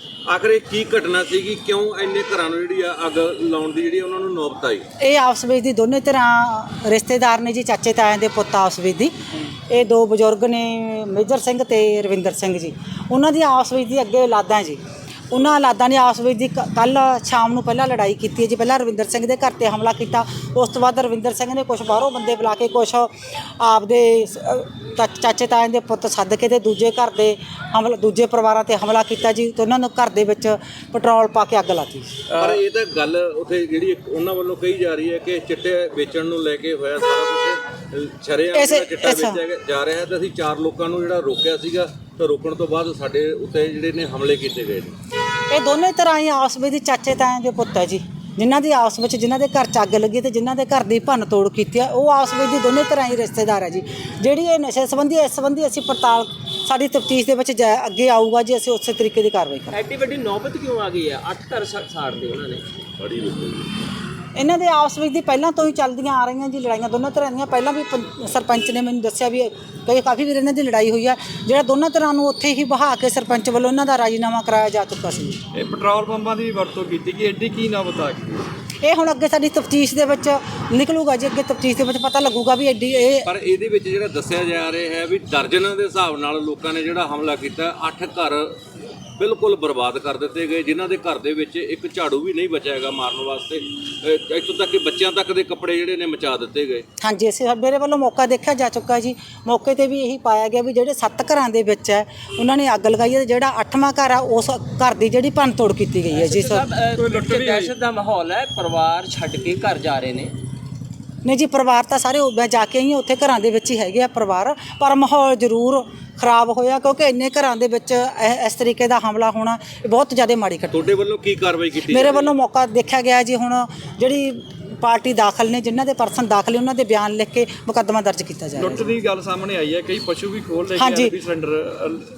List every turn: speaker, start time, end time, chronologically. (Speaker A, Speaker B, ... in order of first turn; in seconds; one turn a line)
Speaker A: 0.3-4.8
Speaker B: 5.0-9.1
Speaker B: 9.7-14.8
Speaker B: 15.3-32.2
Speaker C: 32.3-32.6
Speaker A: 32.4-44.9
Speaker B: 38.5-39.4
Speaker B: 45.5-59.8
Speaker D: 59.7-62.6
Speaker A: 63.0-63.7
Speaker B: 64.3-75.4
Speaker C: 75.5-78.5
Speaker B: 78.8-83.3
Speaker A: 83.2-88.5
Speaker A: 89.2-96.8
Speaker B: 97.0-106.7
Speaker D: 106.1-110.3
Speaker C: 107.0-107.7
Speaker B: 111.2-120.8
Speaker A: 120.7-122.3
Speaker B: 121.9-128.9
Speaker C: 128.6-132.1
Speaker B: 130.8-131.1